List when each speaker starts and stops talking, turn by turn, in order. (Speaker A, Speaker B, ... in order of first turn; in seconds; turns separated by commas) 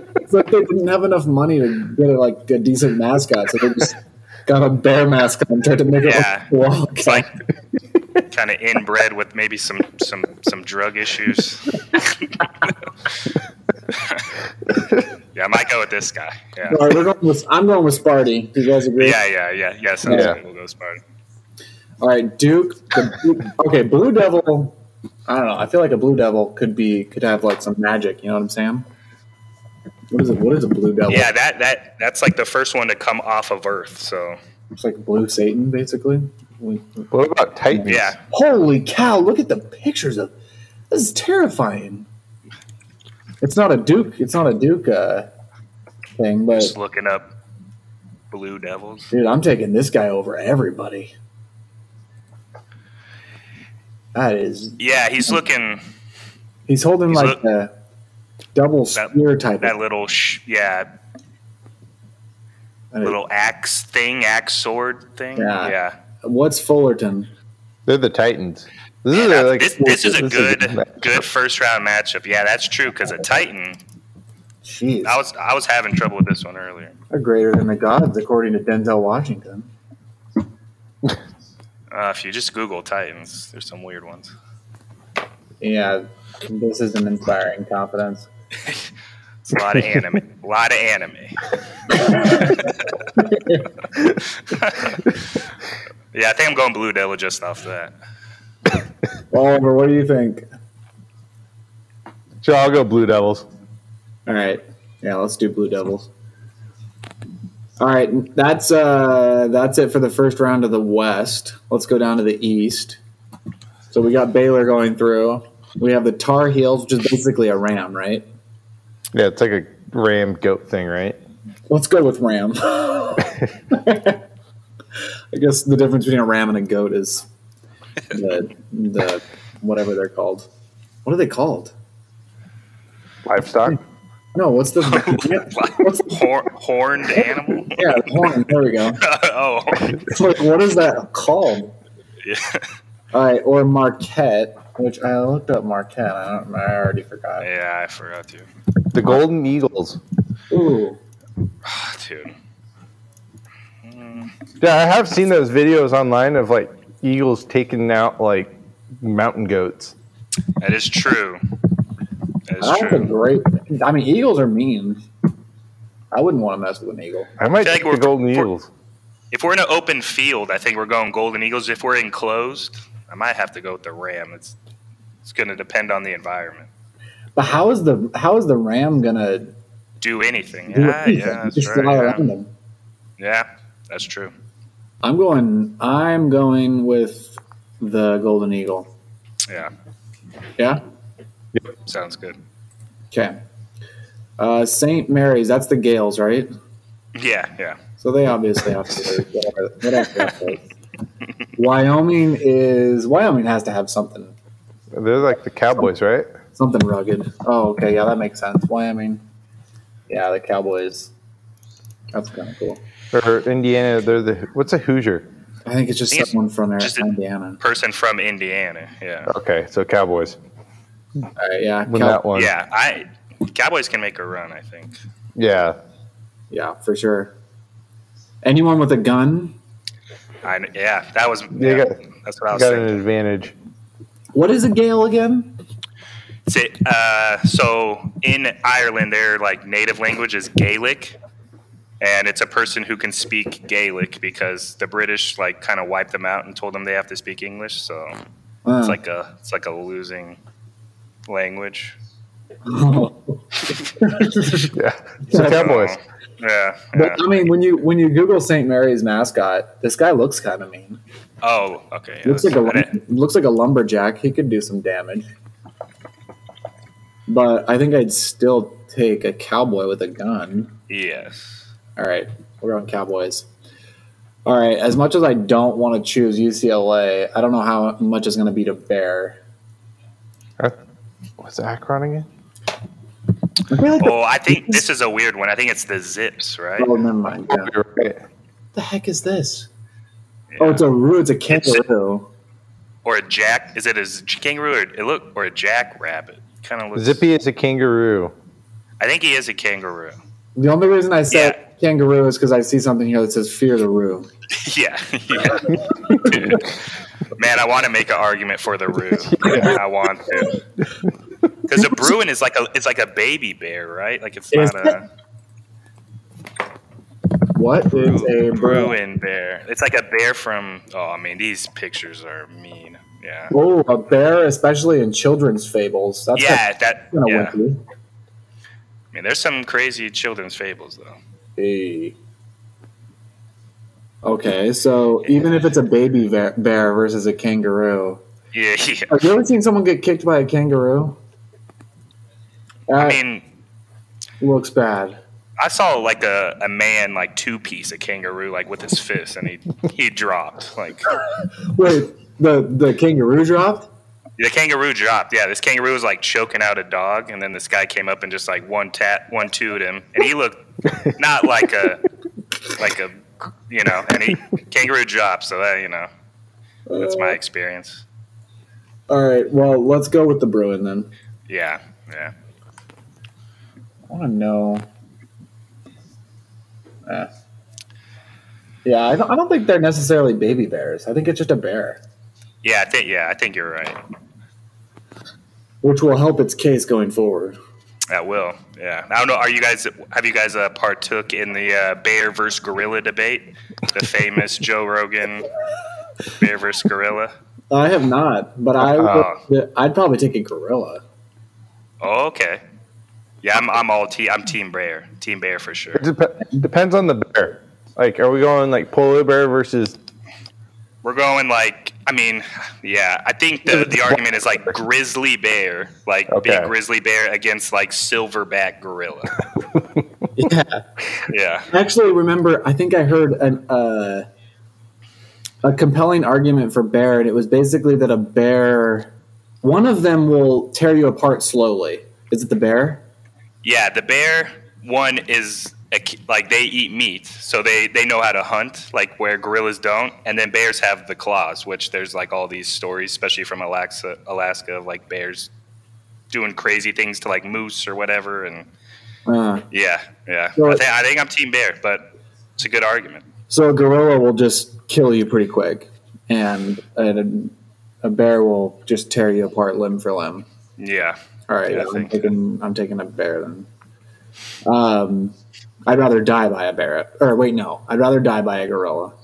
Speaker A: 0.1-7.3, Speaker B: 6.0-6.5, Speaker B: 7.0-7.3, Speaker B: 8.3-12.7, Speaker B: 13.9-14.3, Speaker B: 15.3-16.9, Speaker A: 16.7-19.2, Speaker B: 19.0-21.0, Speaker A: 20.0-20.3, Speaker C: 20.1-20.4, Speaker A: 22.0-24.7, Speaker A: 25.3-28.9, Speaker A: 30.1-31.3, Speaker B: 31.1-34.4, Speaker A: 34.7-37.1, Speaker C: 37.1-38.1, Speaker A: 37.7-40.3, Speaker B: 37.9-38.2, Speaker A: 40.9-42.0, Speaker A: 43.4-45.3, Speaker A: 46.2-46.7, Speaker B: 46.5-47.3, Speaker B: 48.3-49.1, Speaker A: 49.1-51.1, Speaker A: 54.1-55.3, Speaker B: 54.8-55.8, Speaker A: 56.7-57.7, Speaker B: 57.1-57.4, Speaker A: 58.5-59.7, Speaker B: 59.6-60.9, Speaker B: 63.0-65.9, Speaker A: 65.3-67.3, Speaker C: 67.8-71.2, Speaker B: 69.1-73.8, Speaker A: 74.6-75.2, Speaker B: 75.0-76.9, Speaker A: 77.1-79.7, Speaker B: 81.9-84.3, Speaker A: 85.6-88.3, Speaker B: 89.4-91.4, Speaker A: 91.9-93.6, Speaker B: 92.1-92.9, Speaker B: 94.5-95.0, Speaker B: 96.1-97.9, Speaker A: 99.3-100.4, Speaker C: 102.4-103.5, Speaker A: 104.2-106.1, Speaker A: 107.8-113.0, Speaker A: 113.9-118.2, Speaker C: 119.1-121.2, Speaker A: 121.7-124.2, Speaker A: 125.3-127.2, Speaker A: 128.1-130.5, Speaker A: 131.0-131.7, Speaker C: 133.2-133.8, Speaker A: 134.3-136.2, Speaker B: 134.8-138.4, Speaker A: 137.7-139.0, Speaker B: 139.0-140.0, Speaker A: 139.8-141.7, Speaker B: 142.2-142.7, Speaker A: 143.1-147.5, Speaker B: 147.4-148.5, Speaker C: 148.9-150.0, Speaker A: 150.5-151.0, Speaker B: 151.6-152.3, Speaker B: 153.8-154.3, Speaker C: 154.6-159.9, Speaker B: 160.6-161.4, Speaker B: 162.5-163.1, Speaker A: 162.6-165.0, Speaker A: 166.1-167.3, Speaker C: 167.4-168.7, Speaker B: 167.6-168.5, Speaker B: 169.3-174.6, Speaker B: 175.2-176.7, Speaker A: 177.3-179.5, Speaker B: 180.0-182.2, Speaker A: 180.7-182.5, Speaker B: 183.2-184.3, Speaker A: 185.0-188.9, Speaker B: 191.8-192.4, Speaker A: 194.4-196.5, Speaker B: 197.1-197.8, Speaker A: 198.0-200.7, Speaker A: 201.6-204.3, Speaker C: 204.9-206.3, Speaker A: 206.5-209.2, Speaker A: 210.1-211.1, Speaker A: 212.1-212.8, Speaker C: 213.1-215.2, Speaker A: 215.7-217.6, Speaker B: 216.1-219.3, Speaker C: 219.3-220.4, Speaker A: 221.4-222.2, Speaker C: 221.9-222.5, Speaker B: 222.3-225.0, Speaker C: 225.3-225.8, Speaker A: 226.5-227.3, Speaker A: 228.4-229.5, Speaker B: 230.4-233.0, Speaker C: 231.5-232.0, Speaker C: 232.5-233.5, Speaker A: 234.3-235.5, Speaker B: 236.4-241.2, Speaker B: 242.0-248.2, Speaker A: 248.7-249.0, Speaker B: 248.8-250.4, Speaker B: 251.3-251.9, Speaker A: 252.7-253.4, Speaker A: 254.0-254.7, Speaker C: 254.7-255.9, Speaker A: 255.3-255.6, Speaker B: 255.3-257.2, Speaker A: 256.9-261.0, Speaker B: 261.4-263.0, Speaker A: 262.2-265.3, Speaker A: 267.3-270.7, Speaker B: 270.9-271.6, Speaker A: 271.9-273.5, Speaker A: 274.4-279.4, Speaker C: 281.4-282.3, Speaker A: 283.7-284.8, Speaker B: 284.0-287.0, Speaker A: 286.8-287.7, Speaker C: 287.5-288.2, Speaker A: 288.7-289.7, Speaker B: 290.5-290.9, Speaker A: 290.6-292.3, Speaker B: 291.5-291.8, Speaker B: 293.0-297.2, Speaker C: 296.9-298.3, Speaker B: 299.0-300.2, Speaker A: 300.6-304.3, Speaker B: 301.3-301.6, Speaker B: 304.5-306.8, Speaker A: 305.7-306.5, Speaker B: 307.3-310.6, Speaker C: 309.2-309.8, Speaker A: 309.4-309.8, Speaker B: 311.6-315.0, Speaker A: 314.5-315.0, Speaker A: 317.5-318.9, Speaker B: 317.9-323.5, Speaker A: 323.5-327.8, Speaker B: 326.3-327.5, Speaker B: 329.1-331.2, Speaker A: 331.6-332.1, Speaker A: 334.2-338.2, Speaker B: 338.5-339.2, Speaker A: 339.1-341.2, Speaker A: 342.9-343.2, Speaker B: 342.9-343.4, Speaker A: 344.4-345.2, Speaker B: 345.6-351.1, Speaker A: 351.7-353.9, Speaker B: 354.4-360.6, Speaker B: 361.1-362.0, Speaker B: 362.7-366.1, Speaker A: 366.9-367.4, Speaker B: 367.0-368.0, Speaker A: 369.1-371.1, Speaker B: 371.5-372.3, Speaker A: 374.1-374.8, Speaker A: 378.8-382.0, Speaker B: 382.6-384.0, Speaker A: 385.8-387.6, Speaker B: 388.1-395.5, Speaker B: 396.4-397.3, Speaker A: 397.7-401.0, Speaker C: 398.8-399.3, Speaker B: 399.0-399.4, Speaker B: 402.0-402.6, Speaker B: 403.4-406.0, Speaker C: 405.9-409.9, Speaker B: 411.0-419.4, Speaker C: 413.7-414.2, Speaker C: 416.3-416.7, Speaker C: 419.8-420.0, Speaker A: 420.3-420.8, Speaker B: 421.3-421.7, Speaker A: 421.7-424.2, Speaker A: 425.6-429.1, Speaker A: 429.6-433.0, Speaker B: 433.6-445.5, Speaker B: 446.3-448.7, Speaker A: 449.3-449.6, Speaker B: 449.7-452.0, Speaker A: 450.6-450.8, Speaker B: 452.6-453.2, Speaker A: 453.5-460.4, Speaker B: 460.8-461.2, Speaker A: 461.5-463.7, Speaker B: 461.7-462.3, Speaker A: 464.6-465.3, Speaker A: 465.9-469.1